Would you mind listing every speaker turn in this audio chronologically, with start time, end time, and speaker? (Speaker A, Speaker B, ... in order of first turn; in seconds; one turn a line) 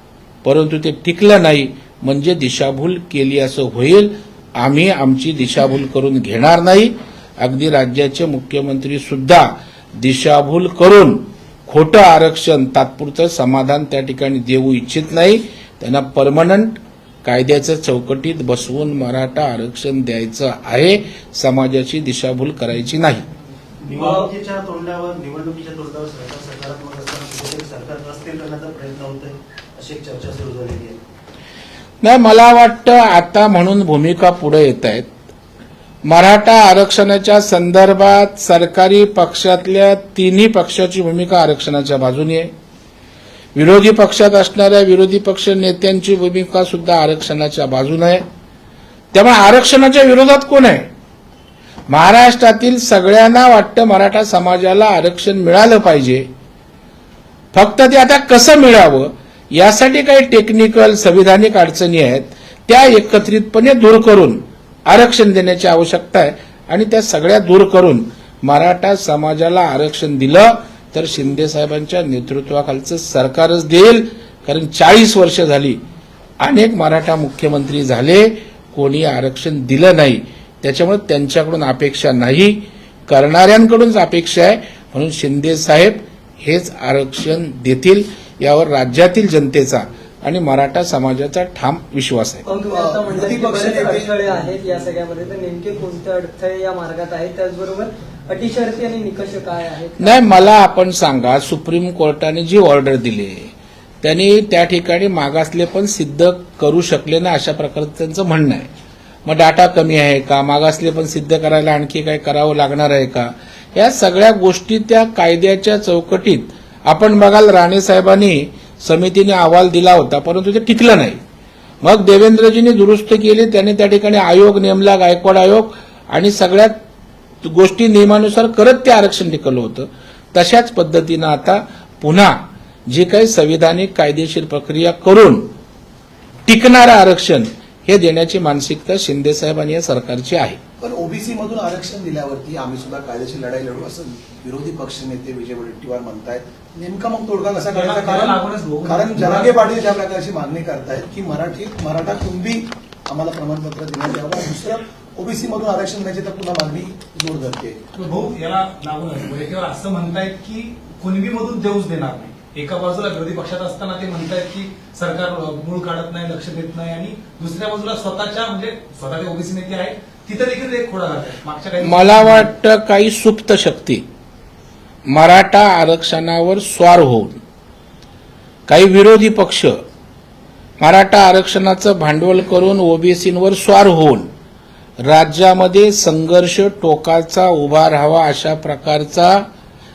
Speaker A: 0.4-23.3
Speaker B: 23.8-31.0
Speaker A: 32.0-35.1
Speaker A: 36.1-42.5
Speaker A: 43.5-48.2
Speaker A: 49.1-50.9
Speaker A: 51.9-56.3
Speaker A: 57.5-75.8
Speaker A: 76.4-92.4
Speaker C: 92.5-100.4
Speaker D: 92.6-94.1
Speaker A: 100.0-103.5
Speaker A: 104.0-108.7
Speaker A: 109.3-121.2
Speaker A: 121.8-126.8
Speaker A: 127.4-135.5
Speaker A: 136.5-140.6
Speaker D: 140.8-157.8
Speaker E: 147.7-149.8
Speaker E: 157.9-172.5
Speaker A: 171.8-174.0
Speaker A: 175.1-177.4
Speaker A: 178.7-179.8
Speaker A: 180.8-184.3
Speaker A: 185.0-189.4